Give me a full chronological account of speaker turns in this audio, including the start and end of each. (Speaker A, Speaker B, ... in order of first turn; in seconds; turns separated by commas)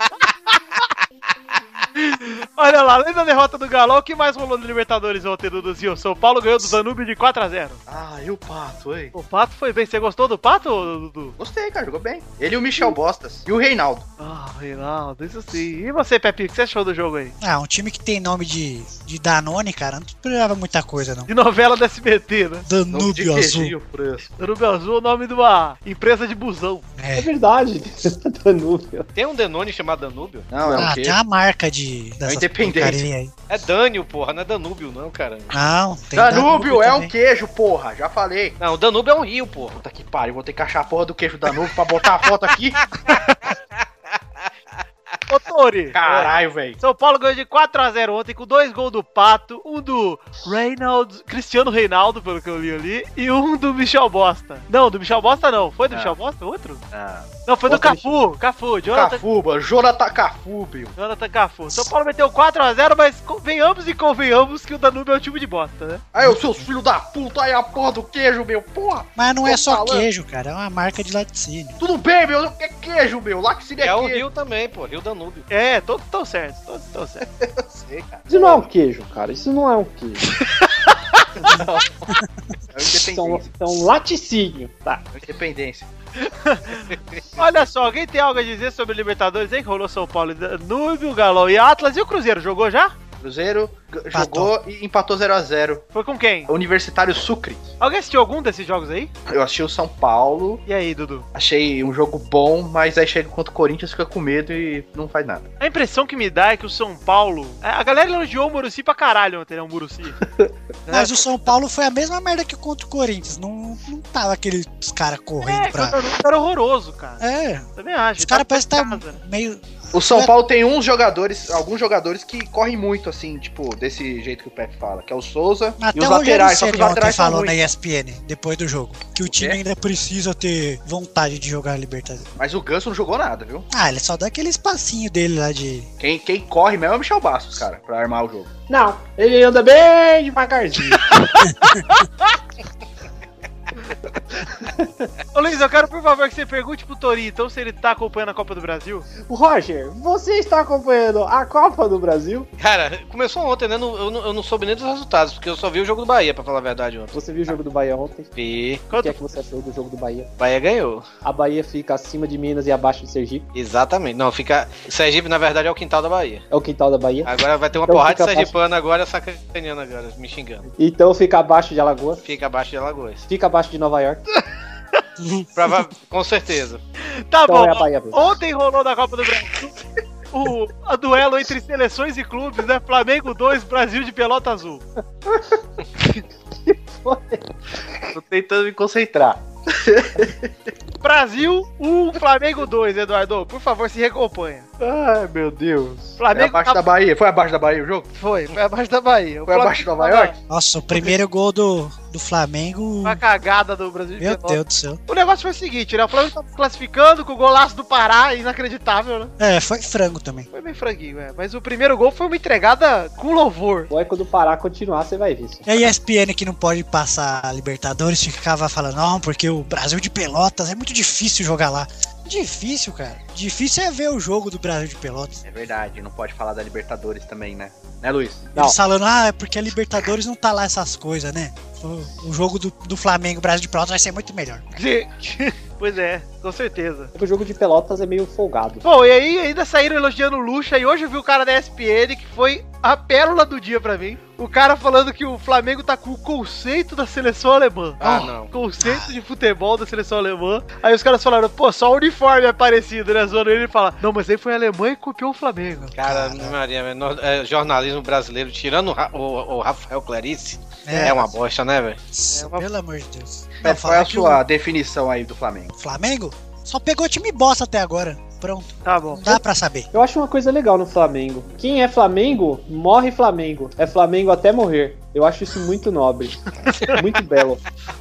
Speaker A: 2.0-7.8, Speaker B: 7.9-9.1, Speaker A: 9.1-11.4, Speaker B: 11.4-14.1, Speaker A: 14.2-17.4, Speaker C: 17.4-21.3, Speaker A: 21.3-22.7, Speaker C: 22.7-23.8, Speaker B: 22.9-24.3, Speaker A: 24.4-26.9, Speaker C: 27.0-27.3, Speaker D: 27.2-29.1, Speaker E: 29.1-30.5, Speaker B: 30.5-31.2, Speaker C: 30.7-33.3, Speaker B: 32.3-33.0, Speaker E: 33.5-35.5, Speaker C: 35.5-37.1, Speaker B: 36.1-38.6, Speaker E: 38.6-39.8, Speaker B: 39.8-42.9, Speaker A: 45.3-56.8, Speaker B: 45.9-46.8, Speaker B: 55.9-56.2, Speaker B: 56.9-57.3, Speaker A: 57.5-59.2, Speaker D: 57.7-58.1, Speaker B: 58.9-61.0, Speaker A: 61.0-66.0, Speaker B: 66.1-70.1, Speaker C: 69.2-71.8, Speaker B: 71.8-74.2, Speaker E: 73.8-75.5, Speaker A: 75.5-77.2, Speaker B: 77.4-78.7, Speaker D: 78.3-80.3, Speaker A: 80.7-81.5, Speaker B: 81.4-82.2, Speaker B: 82.7-83.6, Speaker D: 83.0-85.0, Speaker B: 85.1-85.9, Speaker A: 86.2-92.9, Speaker B: 93.2-95.9, Speaker C: 94.1-94.5, Speaker A: 95.9-96.5, Speaker B: 96.5-97.7, Speaker A: 97.8-99.1, Speaker B: 99.3-100.6, Speaker A: 100.7-101.3, Speaker B: 101.3-105.5, Speaker A: 105.6-110.2, Speaker A: 110.8-111.2, Speaker C: 110.9-116.0, Speaker A: 115.4-117.2, Speaker C: 117.2-117.7, Speaker A: 117.8-119.2, Speaker C: 118.2-120.3, Speaker B: 119.9-127.7, Speaker C: 125.8-132.3, Speaker B: 129.2-129.6, Speaker B: 132.4-133.7, Speaker C: 133.7-135.9, Speaker B: 136.0-138.5, Speaker D: 138.7-141.1, Speaker A: 141.1-142.1, Speaker D: 144.7-145.1, Speaker A: 145.3-149.1, Speaker D: 149.2-152.5, Speaker E: 152.6-157.6, Speaker D: 157.1-158.3, Speaker E: 158.4-158.8, Speaker A: 158.9-159.2, Speaker D: 158.9-160.3, Speaker E: 160.4-161.1, Speaker D: 161.2-163.5, Speaker E: 163.6-166.4, Speaker D: 166.5-168.6, Speaker E: 167.2-170.7, Speaker D: 170.8-172.2, Speaker E: 172.2-173.3, Speaker D: 173.3-174.2, Speaker C: 175.2-175.5, Speaker E: 175.6-176.8, Speaker A: 177.2-179.8, Speaker D: 177.5-178.2, Speaker A: 180.3-184.8, Speaker D: 185.3-185.6, Speaker D: 186.7-187.5, Speaker B: 188.1-190.5, Speaker A: 191.0-194.7, Speaker B: 194.8-198.1, Speaker A: 196.2-196.8, Speaker A: 198.1-200.4, Speaker B: 199.5-200.3, Speaker C: 200.5-203.2, Speaker A: 203.0-209.3, Speaker C: 204.2-205.0, Speaker C: 209.4-210.5, Speaker A: 210.5-213.9, Speaker D: 213.9-215.7, Speaker C: 215.7-225.4, Speaker B: 225.4-228.6, Speaker C: 228.6-234.6, Speaker A: 234.8-237.1, Speaker D: 237.2-238.8, Speaker A: 238.8-255.9, Speaker E: 248.0-248.5, Speaker C: 255.8-256.6, Speaker E: 256.0-262.0, Speaker C: 260.9-261.4, Speaker C: 262.1-264.4, Speaker A: 262.3-262.7, Speaker B: 263.6-265.7, Speaker C: 265.8-269.9, Speaker A: 268.9-269.4, Speaker D: 269.9-277.6